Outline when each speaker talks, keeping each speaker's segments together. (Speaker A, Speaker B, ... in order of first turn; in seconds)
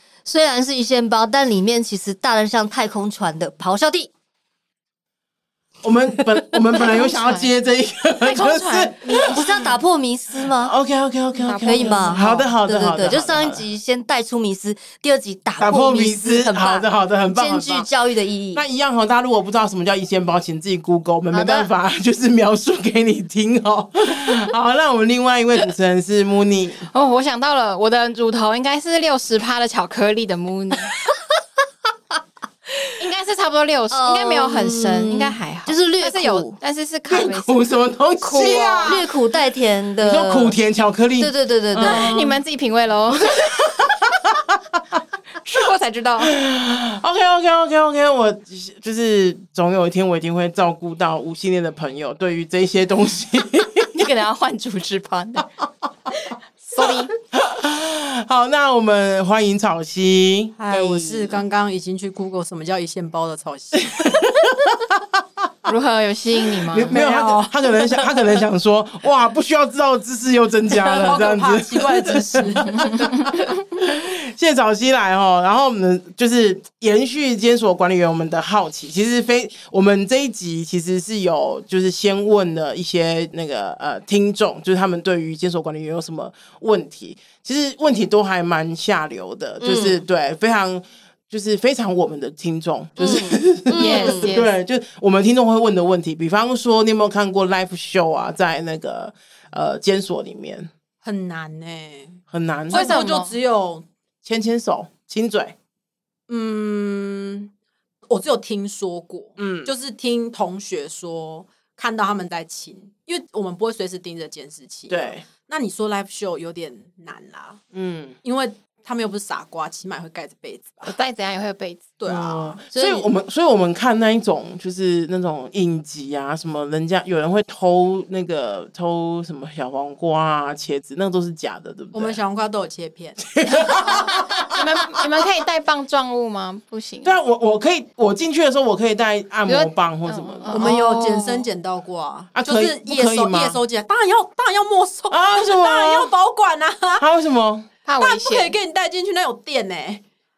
Speaker A: 0.2-4.1, 9.2-10.7, 11.6-18.6, 21.3-21.7, 33.9-36.6, 38.8-40.6, 41.2-42.2, 60.7-61.4, 89.6-90.0, 93.0-94.3, 122.7-123.1
Speaker B: 5.8-9.6, 10.4-13.6, 15.6-17.9, 18.5-26.9, 37.1-39.1, 40.0-42.4, 43.3-45.0, 46.2-54.1, 56.8-60.6, 64.0-65.2, 66.6-100.7, 102.3-102.9, 104.2-105.5, 109.4-109.7, 114.9-115.2, 117.7-118.2, 122.1-132.2, 133.2-135.0, 137.0-140.8, 142.3-143.6, 145.1-146.1, 147.0-147.7
Speaker C: 6.7-7.5, 8.2-9.4, 11.3-12.4, 26.9-30.9, 33.0-37.6, 38.2-39.0, 41.8-43.5, 45.5-46.3, 54.0-55.5, 56.6-57.1, 65.7-67.0, 93.8-94.5, 102.7-103.4, 120.8-121.9, 134.4-137.1, 139.5-141.5, 147.8-148.5
Speaker D: 60.6-64.1, 66.9-67.5, 70.7-73.0, 101.0-103.9, 106.3-107.5, 108.1-117.6, 118.2-120.9, 122.0-122.6, 131.9-134.1, 140.5-147.1, 148.0-150.0